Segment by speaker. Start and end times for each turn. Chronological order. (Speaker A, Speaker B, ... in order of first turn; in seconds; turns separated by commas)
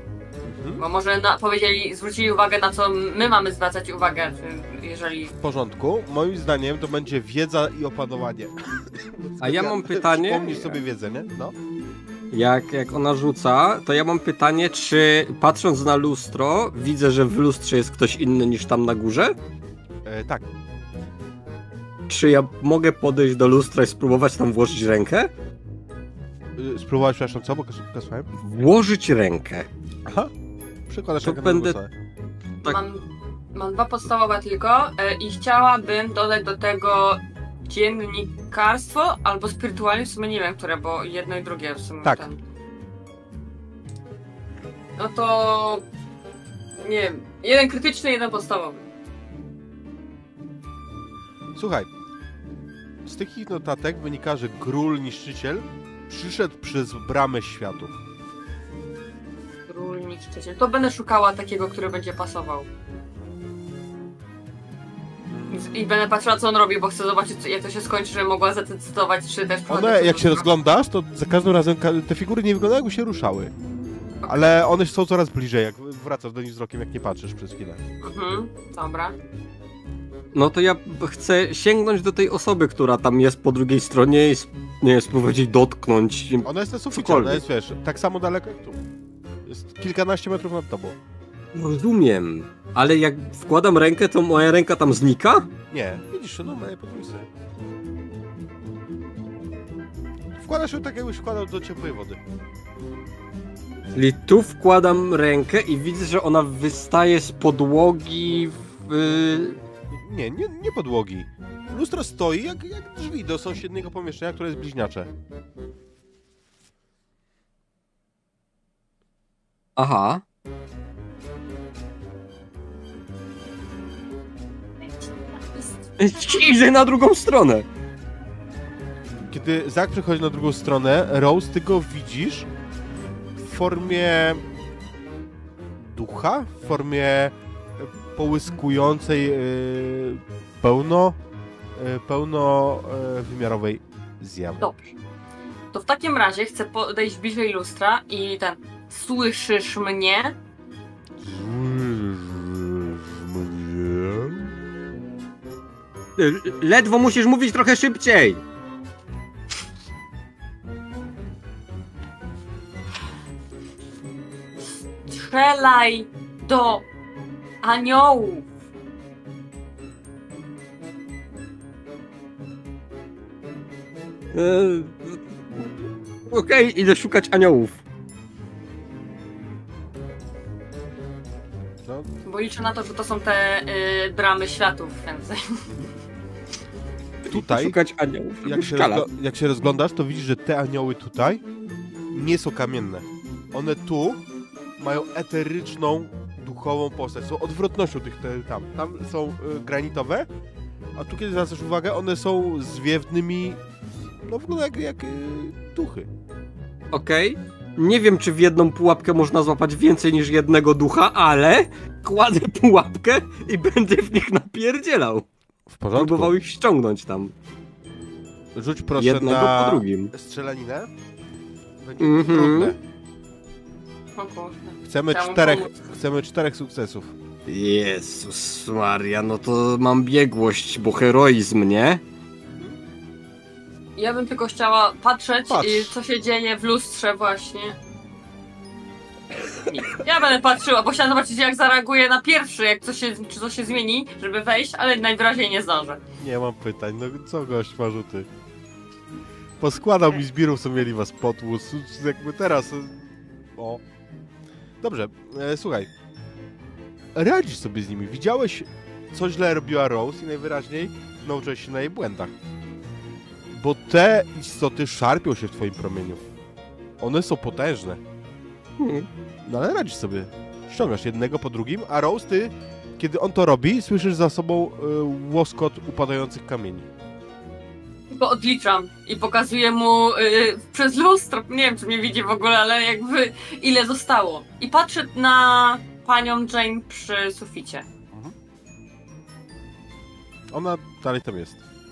Speaker A: 0.4-0.8, Speaker B: 0.8-5.3, Speaker A: 5.4-11.6, Speaker C: 9.4-10.8, Speaker C: 12.3-19.4, Speaker A: 20.1-20.5, Speaker C: 22.1-25.3, Speaker A: 26.6-28.3, Speaker C: 28.4-29.7, Speaker A: 30.1-30.3, Speaker A: 30.9-31.9, Speaker C: 31.2-31.8, Speaker B: 32.6-42.4, Speaker A: 42.0-42.3, Speaker B: 45.0-45.9, Speaker B: 46.8-48.9, Speaker A: 51.5-51.9, Speaker A: 53.0-58.0, Speaker B: 59.7-62.7, Speaker A: 65.3-65.6, Speaker B: 65.5-70.5, Speaker A: 69.7-73.5, Speaker A: 74.3-77.8, Speaker B: 78.0-79.2, Speaker C: 80.3-87.4, Speaker A: 86.5-88.8, Speaker A: 89.5-91.0, Speaker C: 91.5-95.5, Speaker A: 95.7-97.3, Speaker A: 100.4-102.2, Speaker C: 103.9-109.6, Speaker A: 109.9-115.1, Speaker C: 119.8-120.2, Speaker B: 125.3-125.7, Speaker C: 126.0-127.7, Speaker A: 129.3-132.5, Speaker A: 133.4-134.4, Speaker A: 135.8-141.2, Speaker A: 141.8-144.6, Speaker B: 144.6-145.0, Speaker B: 145.7-150.4, Speaker A: 151.2-154.5, Speaker C: 156.2-158.4, Speaker B: 165.1-166.9, Speaker B: 167.6-168.5, Speaker C: 174.3-175.7, Speaker C: 176.3-177.8, Speaker B: 182.2-185.7, Speaker C: 187.3-189.1, Speaker A: 187.3-187.8, Speaker A: 188.4-191.4, Speaker A: 192.1-194.2, Speaker A: 194.8-200.3, Speaker A: 201.0-203.6, Speaker A: 204.2-206.1, Speaker C: 206.9-215.3, Speaker A: 215.7-216.3, Speaker C: 215.9-217.3, Speaker A: 218.6-220.9, Speaker C: 219.0-220.1, Speaker A: 221.8-222.8, Speaker C: 222.0-222.8, Speaker B: 224.2-225.7, Speaker A: 224.8-227.1, Speaker C: 227.5-232.0, Speaker B: 234.0-237.8, Speaker A: 235.5-235.9, Speaker B: 239.7-246.0, Speaker A: 246.2-248.3, Speaker A: 249.6-253.8, Speaker A: 254.8-255.9, Speaker A: 257.1-262.3, Speaker A: 263.5-266.2, Speaker A: 267.0-268.0, Speaker C: 268.8-269.1, Speaker A: 269.4-276.9, Speaker B: 278.1-287.9, Speaker A: 290.5-291.6